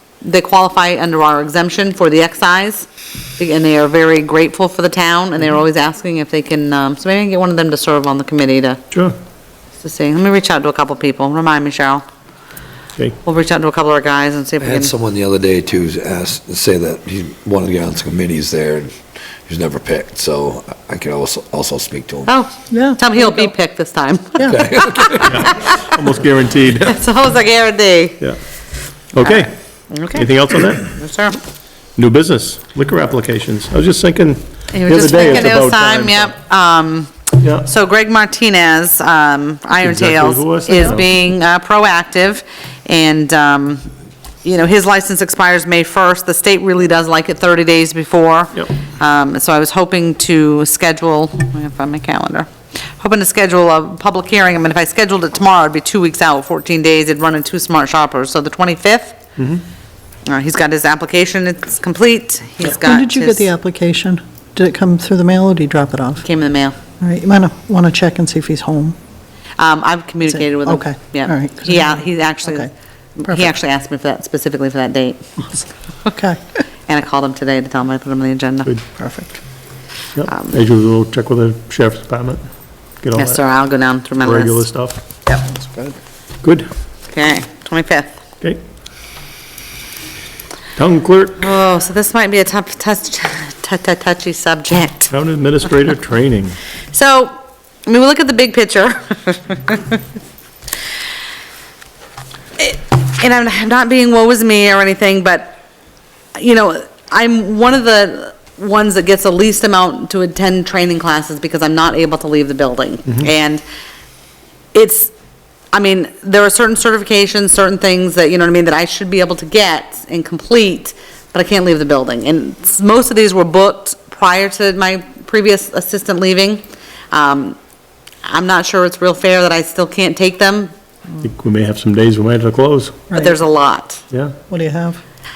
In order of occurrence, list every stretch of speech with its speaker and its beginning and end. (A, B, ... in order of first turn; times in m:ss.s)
0:00.2-0:02.9 A
0:03.4-0:08.8 A
0:09.8-0:12.0 A
0:13.2-0:14.9 A
0:14.6-0:18.9 B
0:19.4-0:22.3 B
0:22.3-0:25.9 A
0:22.7-0:23.5 C
0:24.5-0:25.4 B
0:25.2-0:27.0 D
0:26.8-0:28.2 A
0:29.1-0:29.5 D
0:29.2-0:31.4 A
0:30.0-0:31.0 D
0:32.0-0:36.3 D
0:34.7-0:43.8 A
0:37.4-0:37.7 D
0:39.8-0:41.1 D
0:44.4-0:59.2 A
0:59.4-0:59.6 D
1:00.2-1:03.4 A
1:02.6-1:06.2 C
1:06.2-1:06.8 A
1:07.0-1:09.0 C
1:09.6-1:15.6 A
1:10.3-1:12.7 C
1:16.1-1:16.6 C
1:16.9-1:18.7 A
1:19.0-1:19.4 C
1:20.2-1:22.4 D
1:20.3-1:20.6 A
1:23.0-1:23.4 D
1:23.2-1:24.6 A
1:24.2-1:25.0 D
1:25.5-1:25.9 C
1:26.4-1:26.7 D
1:27.1-1:28.1 A
1:30.8-1:31.4 D
1:31.4-1:35.1 A
1:35.1-1:36.6 D
1:36.9-1:37.3 A
1:37.8-1:40.0 A
1:42.6-1:45.6 A
1:46.3-1:53.6 A
1:54.7-1:55.1 A
1:55.7-2:07.6 A
2:08.2-2:10.7 A
2:11.2-2:13.0 D
2:13.1-2:14.0 A
2:14.5-2:15.0 C